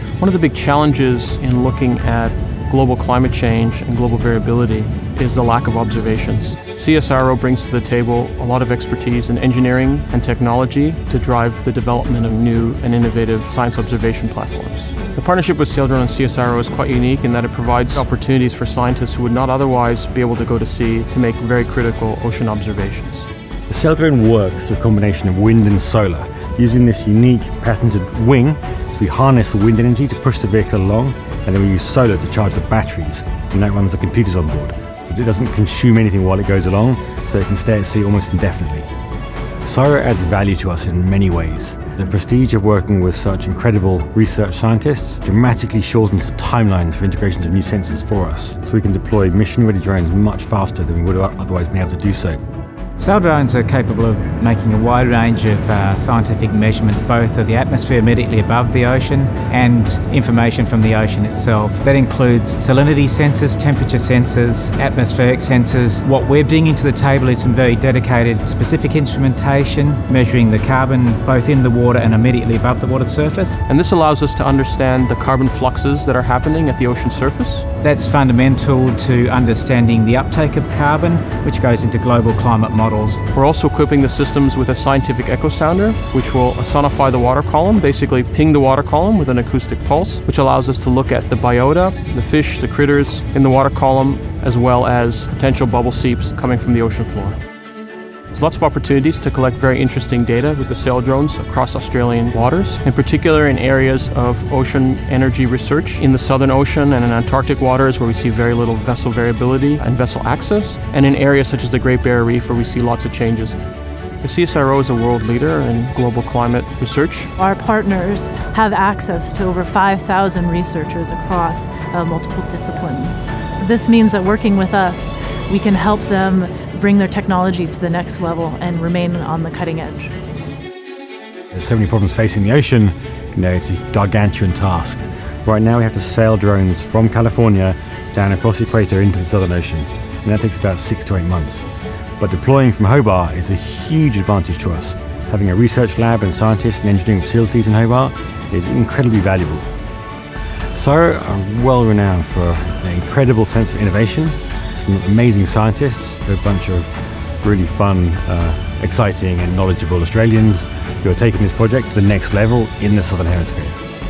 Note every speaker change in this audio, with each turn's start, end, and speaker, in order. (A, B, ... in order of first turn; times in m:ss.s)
0:00.2-0:23.3 A
0:23.7-0:38.9 B
0:39.6-0:52.4 B
0:53.0-1:13.6 C
1:13.7-1:17.6 A
1:17.8-1:23.2 C
1:23.3-1:37.4 A
1:38.3-1:53.6 A
1:54.2-1:57.3 A
1:57.4-2:10.1 D
2:11.5-2:21.7 B
2:22.2-2:29.6 B
2:30.7-2:36.9 B
2:37.4-2:43.8 B